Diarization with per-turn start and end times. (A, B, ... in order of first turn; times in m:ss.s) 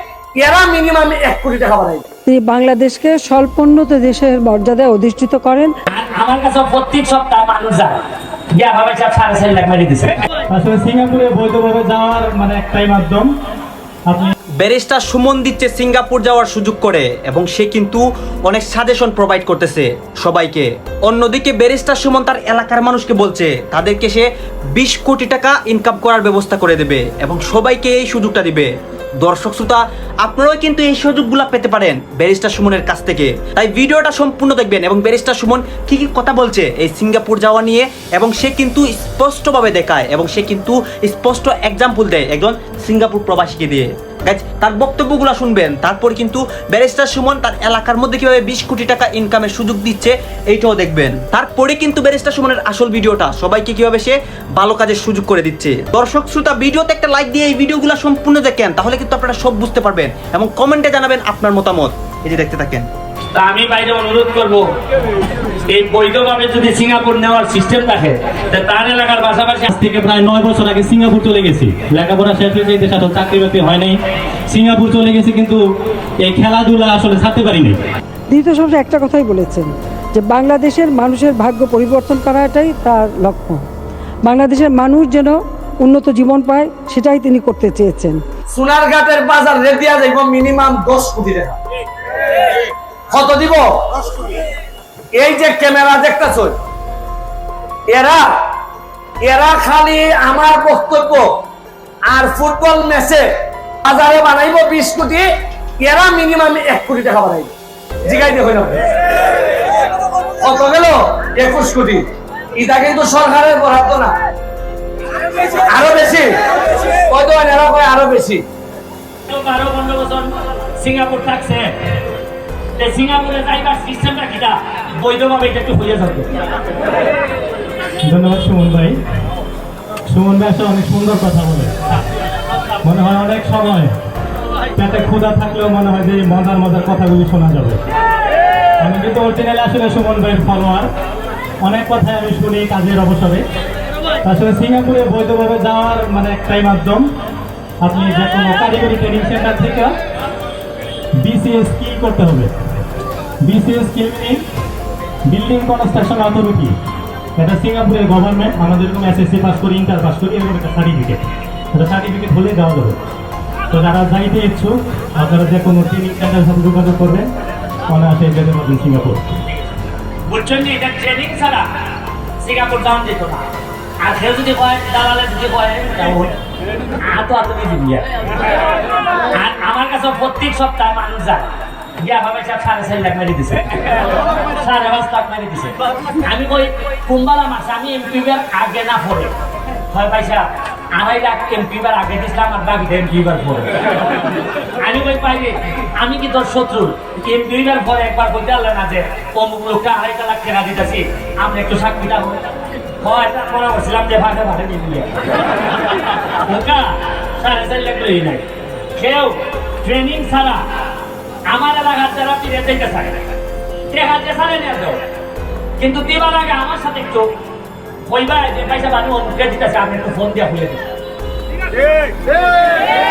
0:00.4-0:02.0 A
0:02.3-0:05.7 B
0:05.9-0:08.0 C
0:08.6-0:10.2 C
0:10.5-0:13.3 D
0:14.1-0:14.3 D
0:14.6-0:28.7 E
0:29.2-1:02.8 E
1:03.3-1:04.7 C
1:05.7-1:09.7 C
1:09.7-1:14.0 D
1:14.5-1:15.6 D
1:16.2-1:17.8 D
1:18.3-1:23.6 B
1:24.2-1:28.2 B
1:28.5-1:31.6 A
1:33.1-1:33.6 A
1:35.1-1:36.5 A
1:37.9-1:38.2 A
1:39.2-1:41.3 A
1:42.1-1:43.2 A
1:43.8-1:45.2 A
1:45.8-1:47.5 A
1:48.1-1:48.8 A
1:50.4-1:52.0 A
1:52.6-1:54.1 A
1:55.7-1:56.3 A
1:57.1-1:58.4 A
1:59.3-2:01.7 C
2:02.8-2:06.4 C
2:08.0-2:08.9 D
2:10.1-2:11.7 D
2:12.8-2:13.9 D
2:14.8-2:17.8 D
2:18.8-2:20.9 D
2:21.6-2:23.4 D
2:24.2-2:27.0 D
2:27.8-2:29.9 D
2:31.2-2:32.5 D
2:33.4-2:34.4 D
2:35.3-2:36.7 D
2:37.4-2:41.2 D
2:41.7-2:43.0 D
2:43.7-2:47.3 D
2:47.9-2:49.2 D
2:50.3-2:51.7 C
2:52.4-2:53.5 C
2:54.0-2:56.3 C
2:57.0-2:58.1 C
2:59.3-3:01.5 C
3:02.0-3:03.8 C
3:04.6-3:09.3 C
3:09.9-3:13.8 C
3:14.8-3:22.4 C
3:23.0-3:25.2 C
3:26.4-3:30.6 C
3:31.5-3:33.2 C
3:33.9-3:35.0 C
3:35.8-3:37.3 C
3:38.0-3:40.8 C